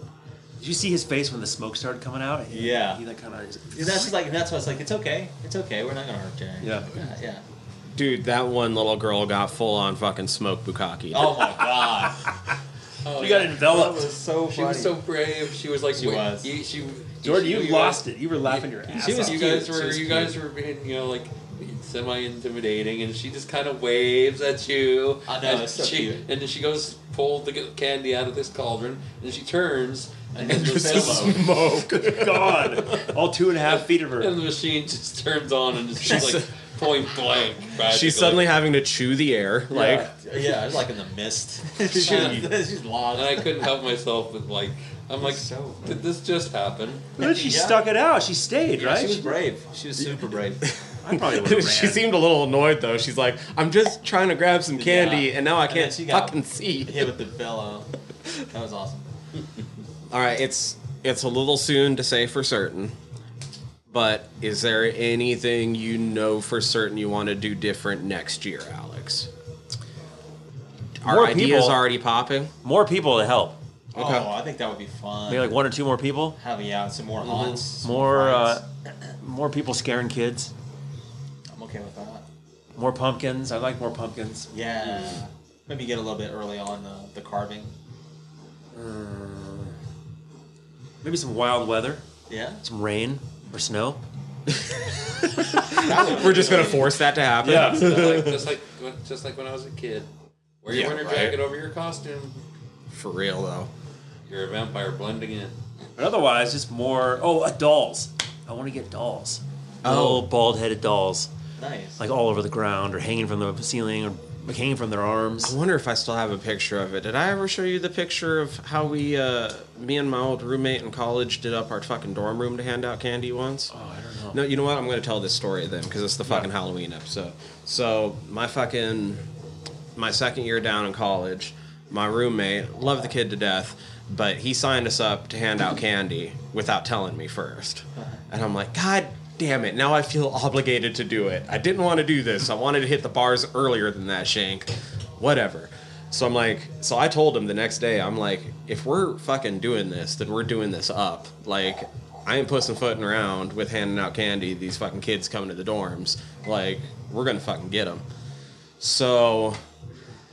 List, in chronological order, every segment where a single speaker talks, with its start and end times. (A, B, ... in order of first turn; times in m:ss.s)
0:00.6-0:04.1 A
0:02.5-0:03.0 B
0:03.7-0:07.4 B
0:06.6-0:07.0 A
0:07.9-0:11.5 C
0:11.1-0:12.3 B
0:13.0-0:13.6 D
0:13.2-0:14.1 A
0:13.6-0:15.0 B
0:14.5-0:31.4 D
0:16.0-0:16.5 B
0:17.2-0:19.5 A
0:19.0-0:20.4 B
0:25.3-0:26.2 B
0:30.3-0:31.5 B
0:30.5-0:33.1 C
0:31.8-0:34.4 A
0:33.6-0:38.5 D
0:36.0-0:36.5 C
0:37.8-0:40.1 C
0:39.7-0:40.1 A
0:39.8-0:43.7 B
0:41.8-0:42.5 C
0:43.1-0:47.2 D
0:45.2-0:45.9 B
0:47.2-0:49.3 A
0:47.2-0:47.8 B
0:48.8-0:50.7 B
0:51.0-0:52.1 A
0:51.1-0:57.1 C
0:54.8-0:59.1 B
1:00.1-1:03.0 C
1:03.9-1:09.3 C
1:11.0-1:12.5 C
1:11.0-1:11.8 A
1:12.6-1:13.6 A
1:14.0-1:14.3 C
1:14.0-1:15.6 B
1:15.3-1:16.4 A
1:16.4-1:18.6 B
1:17.2-1:17.6 C
1:17.8-1:18.6 A
1:19.2-1:20.5 A
1:21.5-1:22.2 B
1:22.8-1:25.2 A
1:24.5-1:27.7 B
1:28.7-1:29.8 A
1:31.0-1:32.0 A
1:32.3-1:32.6 B
1:32.6-1:34.0 A
1:34.5-1:38.5 C
1:35.8-1:37.0 D
1:37.4-1:37.9 A
1:37.5-1:40.1 D
1:40.6-1:42.4 D
1:40.7-1:41.4 C
1:42.9-1:43.7 C
1:44.3-1:45.6 D
1:46.0-1:51.3 A
1:49.8-1:50.3 C
1:51.6-1:52.0 B
1:52.0-1:55.6 A
1:55.4-2:03.7 C
2:03.7-2:04.4 A
2:04.3-2:09.2 C
2:10.0-2:38.0 C
2:38.8-2:39.6 C